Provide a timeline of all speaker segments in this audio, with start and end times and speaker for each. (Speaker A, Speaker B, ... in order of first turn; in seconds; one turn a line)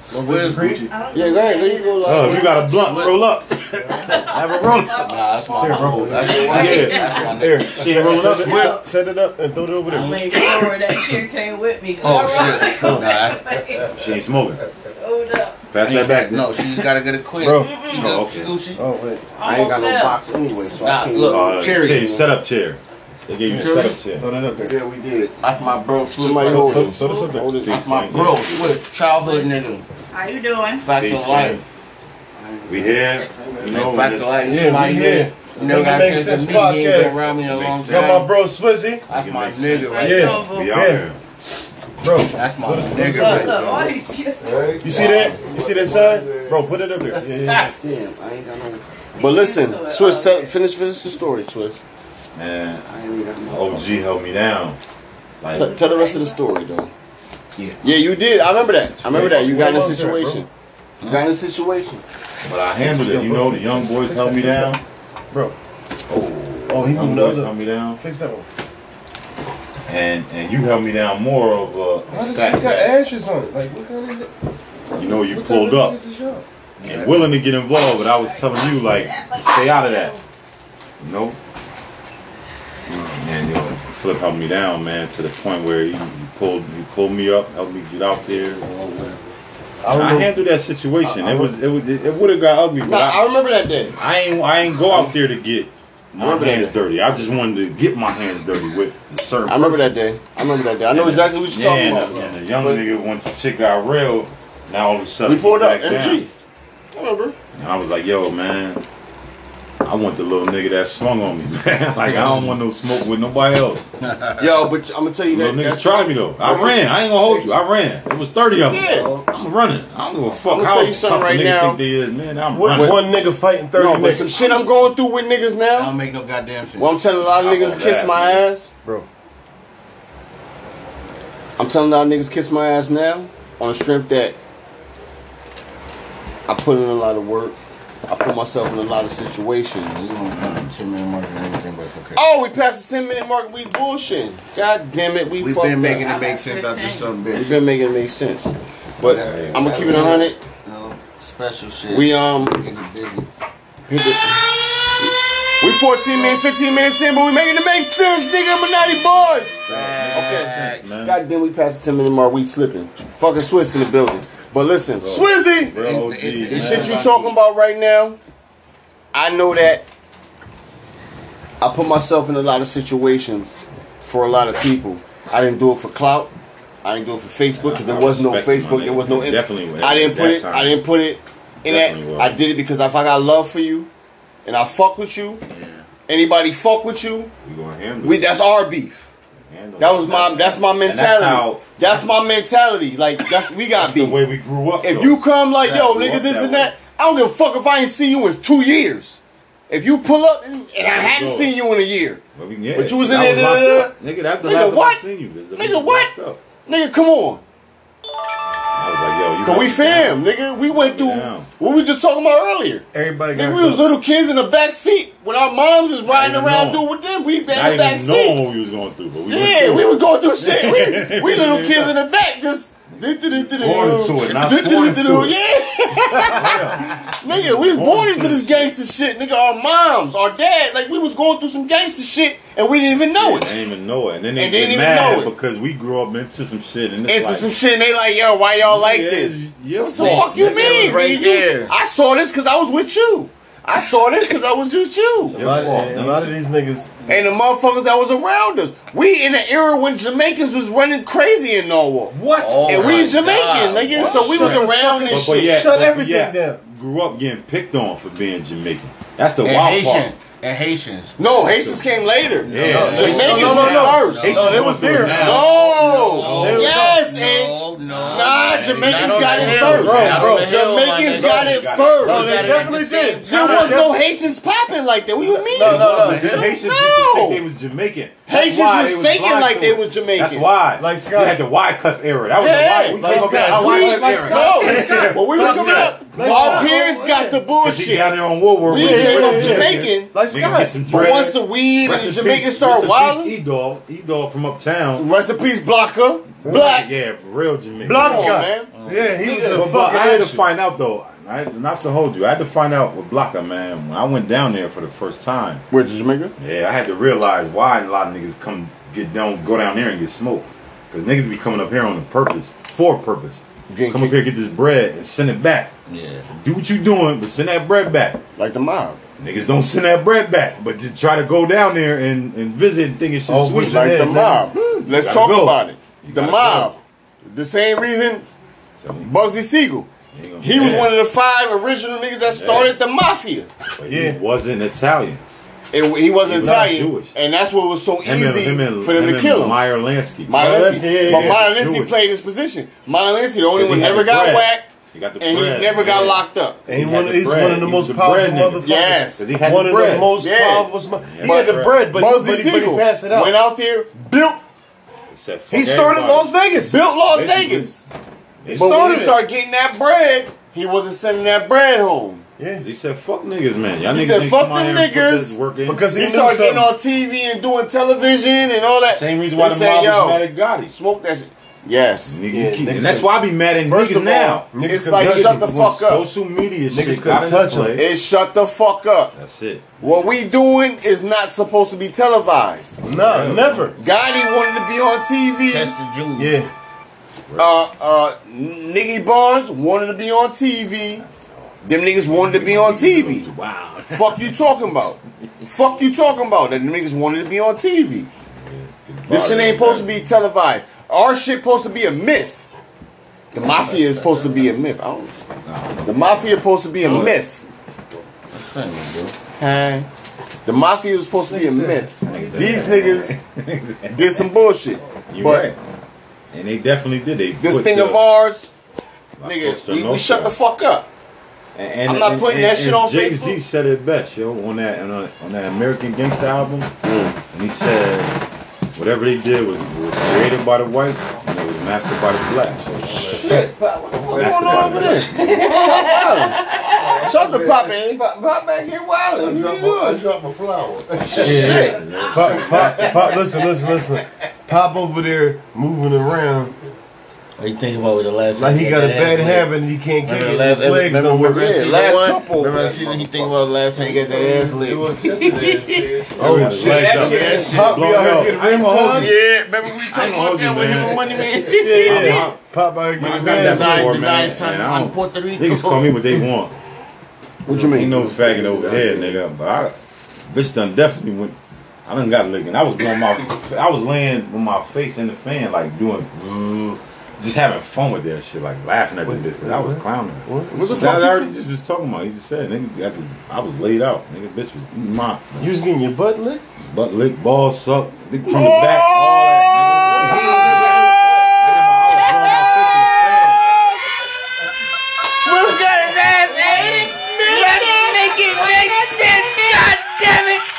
Speaker A: 0.1-0.9
Speaker B: 0.1-0.9
Speaker C: 0.9-3.1
Speaker D: 1.1-2.7
Speaker E: 2.0-5.1
Speaker B: 2.7-3.1
Speaker C: 3.9-7.4
Speaker B: 4.9-8.8
Speaker A: 5.6-6.8
Speaker E: 6.4-8.7
Speaker A: 7.6-10.2
Speaker C: 8.2-8.8
Speaker C: 9.8-13.9
Speaker B: 10.0-10.6
Speaker B: 12.0-13.5
Speaker A: 12.1-13.1
Speaker E: 13.9-14.6
Speaker C: 14.9-15.6
Speaker E: 15.7-16.9
Speaker B: 15.8-18.8
Speaker A: 17.4-17.7
Speaker C: 17.6-18.0
Speaker E: 17.8-18.5
Speaker A: 18.8-19.2
Speaker C: 19.4-20.2
Speaker D: 19.4-21.7
Speaker B: 20.7-22.2
Speaker E: 21.2-24.2
Speaker A: 23.4-24.7
Speaker D: 24.6-25.3
Speaker B: 25.4-27.1
Speaker D: 26.1-27.9
Speaker E: 26.4-28.7
Speaker B: 27.7-29.8
Speaker C: 29.2-29.5
Speaker C: 30.1-30.9
Speaker B: 30.8-31.6
Speaker E: 30.9-31.6
Speaker B: 32.4-38.3
Speaker E: 32.7-34.6
Speaker A: 34.4-37.3
Speaker E: 37.3-38.3
Speaker A: 37.8-39.1
Speaker B: 39.1-40.4
Speaker E: 39.1-41.2
Speaker C: 39.7-40.8
Speaker A: 40.0-41.0
Speaker A: 42.0-43.6
Speaker B: 42.2-43.8
Speaker C: 42.9-45.1
Speaker E: 43.5-43.9
Speaker B: 44.4-46.4
Speaker A: 44.8-47.7
Speaker D: 44.8-45.4
Speaker D: 47.6-51.8
Speaker C: 49.1-50.7
Speaker E: 52.3-52.9
Speaker D: 52.9-54.0
Speaker E: 53.5-54.8
Speaker E: 55.4-55.7
Speaker D: 55.5-56.9
Speaker C: 55.5-56.4
Speaker D: 57.8-60.5
Speaker E: 59.0-59.8
Speaker A: 59.1-60.4
Speaker D: 61.0-62.0
Speaker E: 62.4-64.8
Speaker A: 62.8-64.8
Speaker A: 65.3-65.5
Speaker E: 66.1-68.0
Speaker A: 66.7-68.5
Speaker E: 69.9-72.9
Speaker A: 72.1-74.3
Speaker E: 74.9-76.0
Speaker A: 74.9-76.4
Speaker E: 76.8-80.2
Speaker B: 76.8-77.2
Speaker C: 78.1-80.2
Speaker E: 81.0-81.4
Speaker E: 83.1-88.6
Speaker B: 88.6-89.2
Speaker A: 89.8-90.3
Speaker E: 89.9-93.2
Speaker A: 91.0-91.5
Speaker D: 92.8-94.0
Speaker E: 94.0-100.0
Speaker D: 94.9-95.1
Speaker D: 96.1-96.8
Speaker D: 99.5-102.8
Speaker E: 100.9-106.2
Speaker D: 105.2-106.3
Speaker D: 106.9-107.3
Speaker E: 107.5-108.8
Speaker E: 109.8-113.8
Speaker B: 112.1-112.6
Speaker B: 114.0-114.5
Speaker D: 114.4-117.6
Speaker E: 115.3-123.0
Speaker D: 118.6-119.1
Speaker B: 118.8-119.3
Speaker D: 120.4-121.8
Speaker A: 122.5-124.3
Speaker D: 122.7-123.0
Speaker D: 123.7-126.0
Speaker B: 125.7-127.0
Speaker D: 126.8-128.7
Speaker E: 127.3-128.4
Speaker D: 131.6-134.3
Speaker D: 136.5-140.1
Speaker B: 139.9-142.2
Speaker E: 140.4-140.7
Speaker D: 142.2-146.1
Speaker B: 145.4-147.6
Speaker C: 146.0-147.1
Speaker D: 147.3-150.4
Speaker B: 149.0-153.3
Speaker E: 149.1-150.2
Speaker D: 151.9-152.6
Speaker D: 153.9-165.3
Speaker E: 156.1-156.4
Speaker B: 159.6-160.8
Speaker E: 159.6-161.2
Speaker E: 165.0-167.2
Speaker A: 165.0-165.7
Speaker B: 165.7-167.3
Speaker D: 166.4-168.2
Speaker D: 169.1-169.8
Speaker D: 171.6-176.3
Speaker D: 176.8-183.9
Speaker E: 177.6-180.8
Speaker E: 181.6-182.4
Speaker D: 184.4-185.4
Speaker B: 185.5-185.8
Speaker D: 186.1-187.3
Speaker E: 187.4-188.4
Speaker D: 188.0-189.1
Speaker E: 189.5-191.6
Speaker D: 189.8-194.2
Speaker E: 193.8-196.7
Speaker D: 194.8-199.2
Speaker D: 199.7-202.2
Speaker E: 200.8-201.6
Speaker E: 202.3-206.4
Speaker D: 202.7-205.0
Speaker D: 205.5-206.1
Speaker D: 206.6-207.4
Speaker E: 208.8-211.5
Speaker D: 209.4-218.4
Speaker A: 212.9-213.8
Speaker E: 216.0-216.8
Speaker E: 217.5-221.9
Speaker D: 219.3-233.5
Speaker E: 223.4-225.3
Speaker E: 226.2-228.7
Speaker E: 233.1-237.5
Speaker D: 234.3-235.3
Speaker D: 237.1-239.4
Speaker E: 238.6-241.0
Speaker D: 239.9-245.7
Speaker B: 239.9-241.7
Speaker E: 245.2-246.3
Speaker A: 245.3-246.9
Speaker D: 247.1-255.7
Speaker A: 252.1-253.2
Speaker B: 252.3-254.3
Speaker A: 253.9-256.6
Speaker E: 253.9-260.1
Speaker B: 259.4-261.2
Speaker D: 261.2-277.4
Speaker E: 261.3-266.9
Speaker B: 262.5-273.9
Speaker A: 262.6-265.5
Speaker A: 266.2-266.9
Speaker E: 267.9-270.4
Speaker A: 269.3-270.5
Speaker E: 271.0-272.6
Speaker A: 272.0-273.9
Speaker E: 275.2-286.7
Speaker A: 275.5-276.5
Speaker D: 278.2-280.5
Speaker A: 280.8-281.4
Speaker D: 282.4-293.3
Speaker A: 282.8-287.4
Speaker B: 283.2-284.9
Speaker B: 285.5-285.9
Speaker E: 287.6-295.1
Speaker A: 288.7-290.8
Speaker D: 294.9-296.9
Speaker A: 296.4-296.7
Speaker E: 296.4-298.4
Speaker A: 297.8-300.4
Speaker D: 297.9-298.7
Speaker B: 298.7-299.5
Speaker D: 299.2-299.6
Speaker E: 299.5-305.6
Speaker D: 305.7-306.3
Speaker E: 306.4-315.7
Speaker D: 313.7-314.2
Speaker B: 315.9-316.3
Speaker E: 316.3-318.2
Speaker D: 318.4-319.0
Speaker E: 319.2-326.7
Speaker A: 323.3-324.5
Speaker D: 323.6-328.3
Speaker A: 325.2-325.5
Speaker E: 328.8-329.1
Speaker D: 329.0-329.9
Speaker E: 330.1-330.9
Speaker D: 330.4-333.5
Speaker E: 332.3-332.7
Speaker E: 333.8-335.2
Speaker A: 333.9-334.2
Speaker D: 335.7-339.6
Speaker E: 336.2-337.1
Speaker A: 336.4-336.7
Speaker E: 338.0-341.9
Speaker D: 340.3-346.6
Speaker A: 340.3-341.4
Speaker E: 343.5-350.2
Speaker A: 346.7-353.4
Speaker D: 348.6-349.2
Speaker D: 350.1-350.7
Speaker E: 351.0-351.9
Speaker D: 351.2-354.4
Speaker E: 355.1-357.8
Speaker A: 355.5-356.8
Speaker D: 356.6-357.7
Speaker E: 358.4-359.1
Speaker A: 358.5-359.2
Speaker D: 358.5-362.2
Speaker A: 362.4-362.6
Speaker E: 362.6-365.9
Speaker D: 363.9-365.3
Speaker A: 365.6-366.7
Speaker D: 365.9-372.1
Speaker E: 368.9-370.7
Speaker E: 372.1-377.9
Speaker A: 372.3-373.1
Speaker D: 373.7-376.1
Speaker A: 374.1-375.5
Speaker A: 376.7-377.8
Speaker D: 377.8-379.1
Speaker E: 379.1-380.2
Speaker D: 379.8-382.8
Speaker E: 382.8-383.8
Speaker A: 382.8-383.7
Speaker D: 383.8-385.7
Speaker B: 385.5-386.4
Speaker A: 386.1-386.5
Speaker E: 387.3-387.6
Speaker D: 387.4-391.0
Speaker E: 391.0-391.3
Speaker D: 391.6-393.3
Speaker E: 392.0-394.4
Speaker D: 393.9-398.1
Speaker E: 398.3-400.1
Speaker D: 399.1-402.4
Speaker D: 403.3-405.1
Speaker B: 403.4-404.5
Speaker E: 405.4-406.2
Speaker D: 405.8-407.4
Speaker B: 406.8-407.1
Speaker B: 408.3-409.2
Speaker D: 409.4-409.9
Speaker D: 410.4-413.1
Speaker A: 411.2-412.3
Speaker E: 412.0-414.2
Speaker D: 413.9-415.5
Speaker E: 415.1-415.6
Speaker E: 416.3-418.0
Speaker D: 417.4-418.5
Speaker E: 419.2-420.3
Speaker D: 419.2-420.9
Speaker E: 421.6-426.7
Speaker D: 421.8-423.4
Speaker D: 426.8-427.2
Speaker E: 427.3-428.2
Speaker E: 428.7-433.2
Speaker B: 432.8-443.2
Speaker D: 432.9-438.1
Speaker E: 434.1-435.5
Speaker D: 439.1-440.0
Speaker E: 441.1-443.2
Speaker D: 441.1-441.8
Speaker A: 441.1-446.5
Speaker B: 447.4-449.5
Speaker A: 448.3-451.6
Speaker B: 450.1-457.9
Speaker D: 451.0-455.9
Speaker A: 456.1-459.2
Speaker E: 456.1-462.4
Speaker D: 456.8-457.5
Speaker B: 458.9-462.3
Speaker A: 461.5-464.0
Speaker B: 463.0-466.1
Speaker E: 463.0-466.5
Speaker D: 467.4-468.3
Speaker E: 467.5-469.7
Speaker B: 468.1-469.0
Speaker E: 470.3-485.6
Speaker A: 479.1-481.3
Speaker D: 480.5-480.8
Speaker A: 485.4-486.4
Speaker E: 486.6-493.4
Speaker D: 488.2-491.0
Speaker B: 489.9-491.3
Speaker A: 490.1-490.4
Speaker D: 491.9-493.8
Speaker B: 492.1-492.4
Speaker D: 495.1-499.6
Speaker B: 496.3-500.4
Speaker E: 496.5-497.1